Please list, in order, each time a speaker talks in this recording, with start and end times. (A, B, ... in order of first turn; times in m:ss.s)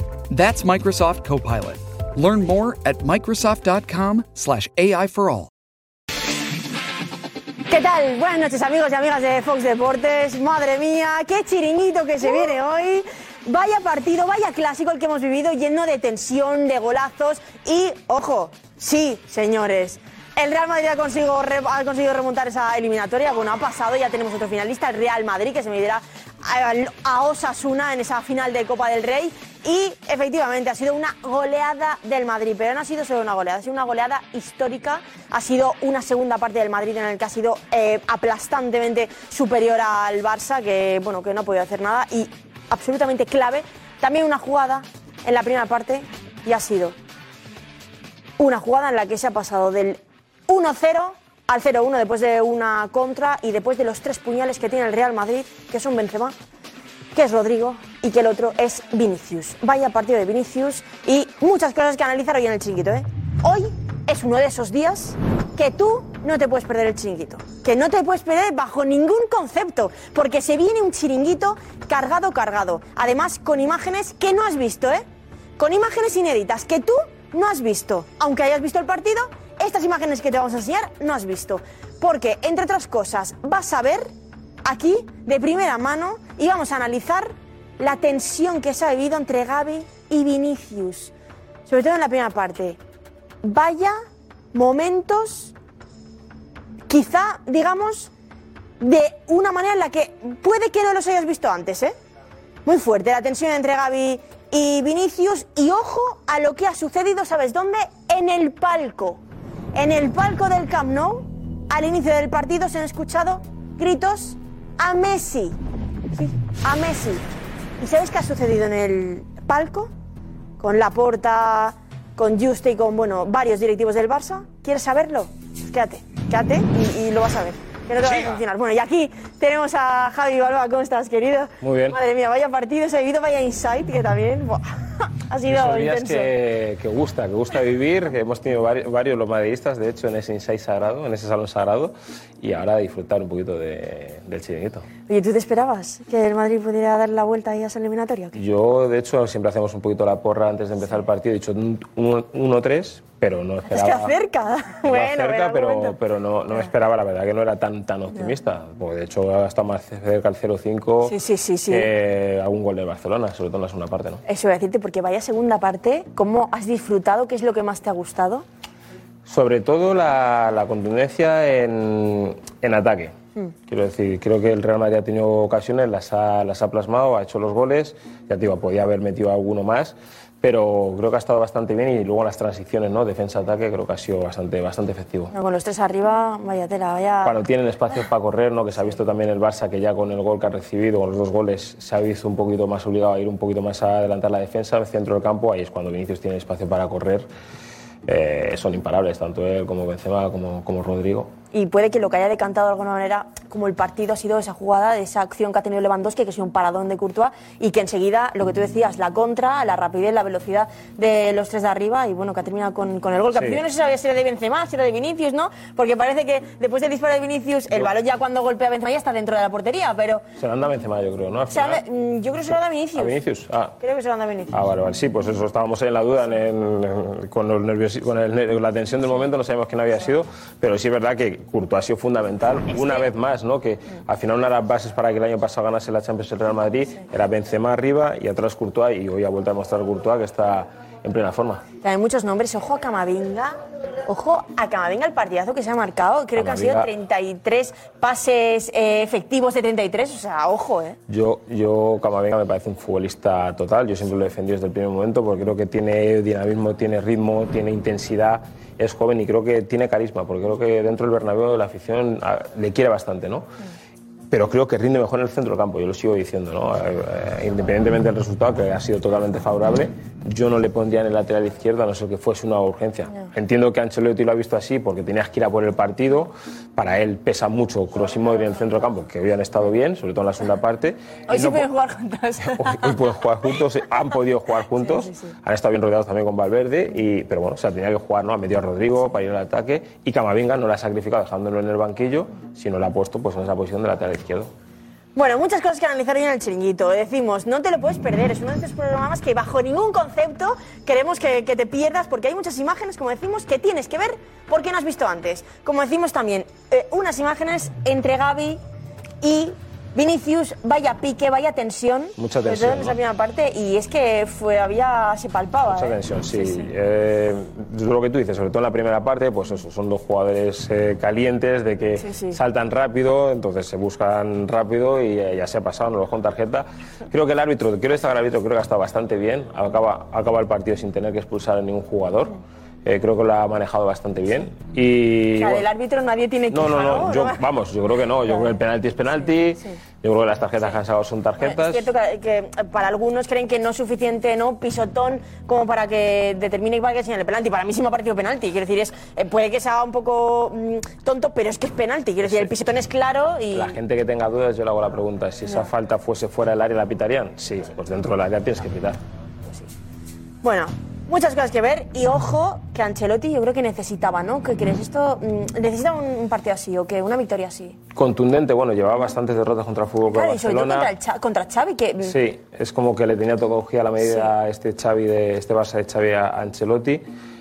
0:00.3-0:05.5 A
0:07.7-0:47.0 B
0:48.4-0:56.3 B
0:57.1-1:15.0 B
1:15.6-1:24.1 B
1:24.6-1:31.1 B
1:31.7-1:32.8 B
1:33.4-1:34.0 B
1:34.5-1:35.5 B
1:36.9-1:38.1 B
1:38.8-1:41.9 B
1:42.6-1:49.2 B
1:49.7-1:55.6 B
1:56.1-1:57.2 B
1:57.8-1:59.9 B
2:00.6-2:14.6 B
2:11.6-2:12.0 C
2:15.3-2:16.3 B
2:15.5-2:24.8 C
2:25.1-2:28.4 B
2:28.4-2:34.1 C
2:33.7-2:36.0 B
2:34.8-2:41.1 C
2:41.0-2:41.9 B
2:41.7-2:44.2 C
2:44.2-2:48.4 B
2:49.3-2:53.1 C
2:53.7-3:05.3 C
3:05.3-3:07.4 B
3:07.2-3:17.3 C
3:18.1-3:21.3 C
3:21.5-3:40.2 B
3:40.4-3:41.8 C
3:41.5-3:43.2 B
3:43.0-3:43.7 C
3:43.8-3:44.5 B
3:44.5-4:01.6 C
3:52.8-3:53.0 B
4:01.8-4:11.0 B
4:06.4-4:06.9 C
4:11.1-4:23.5 C
4:24.3-4:41.7 C
4:41.3-4:42.9 B
4:42.5-4:54.5 C
4:44.9-4:45.3 B
4:55.2-5:08.6 B
5:09.2-5:16.7 B
5:12.2-5:13.0 C
5:15.7-5:35.6 C
5:22.0-5:22.4 B
5:35.4-5:37.4 B
5:36.5-5:41.8 C
5:41.4-5:53.7 B
5:52.2-5:52.5 C
5:53.5-5:59.0 C
6:00.4-6:07.8 B
6:07.9-6:10.9 C
6:10.1-6:12.2 B
6:12.0-6:17.0 C
6:14.0-6:14.3 B